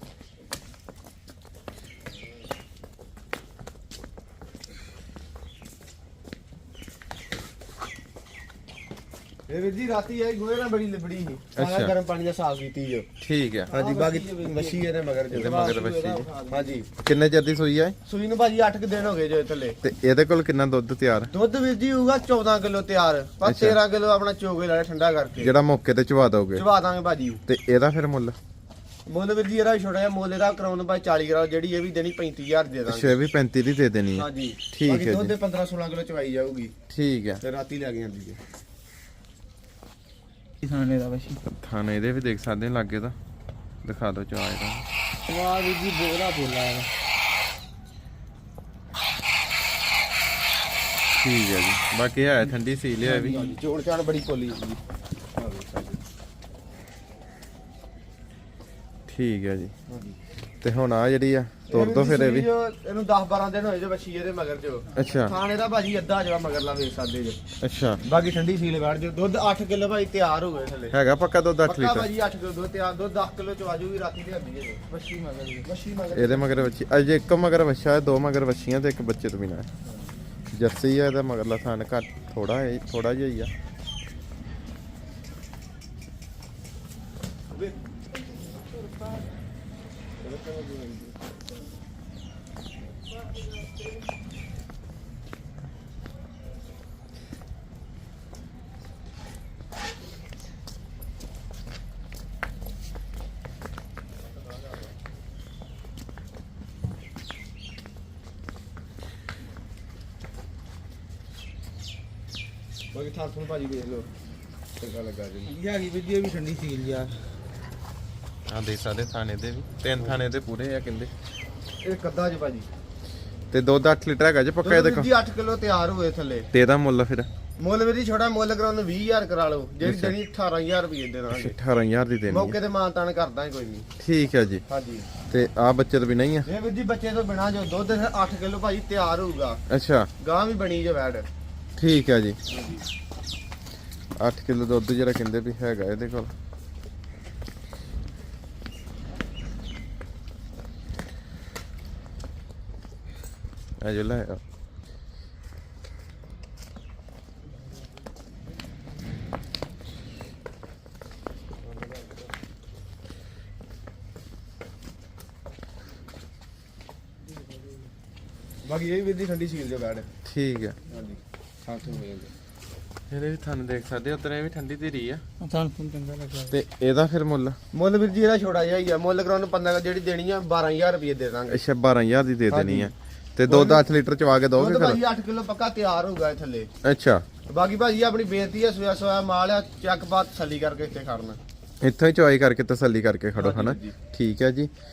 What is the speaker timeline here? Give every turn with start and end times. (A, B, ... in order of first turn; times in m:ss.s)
0:09.5-0:13.1 A
0:11.6-0:11.9 B
0:13.2-0:13.7 B
0:13.7-0:16.7 C
0:13.7-0:15.8 A
0:15.3-0:16.3 B
0:16.5-0:16.9 A
0:17.0-0:18.0 B
0:18.0-0:19.8 A
0:19.8-0:21.3 B
0:21.3-0:25.5 A
0:23.4-0:23.8 B
0:25.4-0:26.6 B
0:26.6-0:27.4 A
0:27.4-0:28.4 B
0:29.1-0:33.2 A
0:32.9-0:35.3 B
0:34.1-0:36.7 A
0:36.9-0:37.4 B
0:37.4-0:38.4 A
0:40.6-0:41.4 C
0:41.4-0:43.2 B
0:43.8-0:44.8 B
0:45.3-0:46.9 C
0:51.1-0:53.5 B
0:53.1-0:54.8 A
0:55.4-0:56.0 A
0:59.1-0:59.7 B
0:59.9-1:00.1 A
1:00.6-1:02.5 B
1:01.7-1:07.4 A
1:04.9-1:05.3 B
1:07.6-1:08.0 B
1:08.0-1:10.9 A
1:10.9-1:12.1 B
1:11.6-1:14.8 A
1:14.9-1:15.7 C
1:15.6-1:16.7 A
1:16.1-1:19.7 B
1:20.5-1:23.5 B
1:30.2-1:31.2 A
1:52.9-1:54.1 A
1:54.8-1:55.5 A
1:55.4-1:57.3 C
1:58.4-2:01.1 B
2:01.8-2:02.7 A
2:03.5-2:05.1 B
2:04.6-2:06.5 A
2:06.5-2:07.3 B
2:07.6-2:11.5 A
2:09.8-2:10.1 B
2:11.3-2:12.6 B
2:12.3-2:13.9 A
2:14.0-2:14.6 B
2:14.7-2:15.1 A
2:15.3-2:16.5 B
2:16.4-2:19.6 A
2:19.7-2:20.1 B
2:20.2-2:21.3 A
2:21.8-2:22.4 B
2:22.5-2:22.8 A
2:24.2-2:26.3 B
2:33.8-2:34.4 B
2:48.6-2:50.1 A
2:50.2-2:50.8 B
2:50.9-2:52.3 A
2:53.1-2:55.2 B
2:55.4-2:56.5 C
2:56.5-2:57.6 B
2:57.7-3:01.6 A
3:01.5-3:05.0 B
3:02.5-3:02.9 A
3:03.4-3:03.8 A
3:04.5-3:06.7 A
3:06.8-3:07.2 B
3:07.5-3:11.4 A
3:11.8-3:14.7 B
3:13.4-3:14.0 A